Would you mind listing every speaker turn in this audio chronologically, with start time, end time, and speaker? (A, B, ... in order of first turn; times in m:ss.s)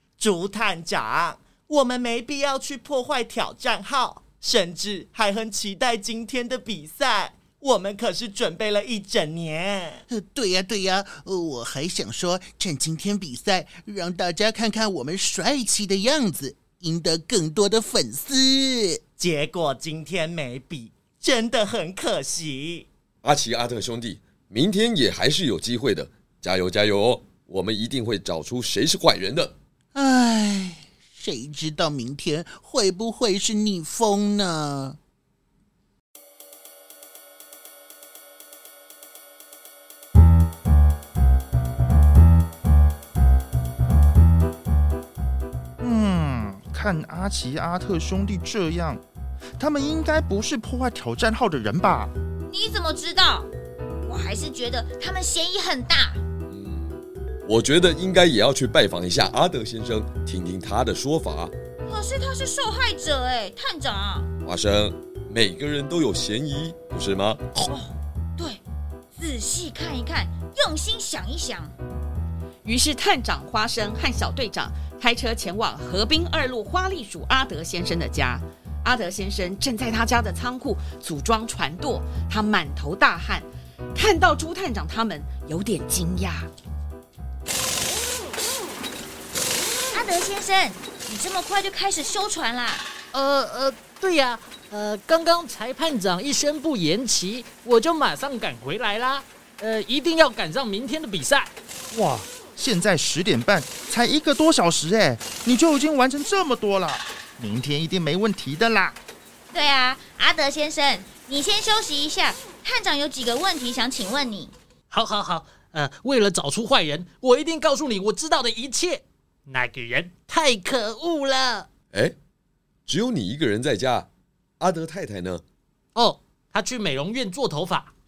0:00.2-0:10.0 A
0:10.1-0:19.0 B
0:19.2-0:22.8 A
0:23.2-0:29.5 C
0:29.9-0:35.0 B
0:45.8-0:49.0 D
0:49.6-0:52.1 D
0:52.5-0:53.5 E
0:54.0-0:56.2 E
0:56.5-0:56.9 C
0:57.5-1:01.5 C
1:01.8-1:04.3 E
1:04.4-1:07.7 C
1:07.7-1:08.6 E
1:09.2-1:11.7 E
1:12.6-1:26.5 F
1:29.9-1:32.8 E
1:33.1-1:41.5 G
1:41.9-1:49.0 D
1:49.5-1:54.5 E
1:54.9-2:01.7 G
2:02.9-2:04.1 C
2:04.6-2:05.4 C
2:05.9-2:07.9 G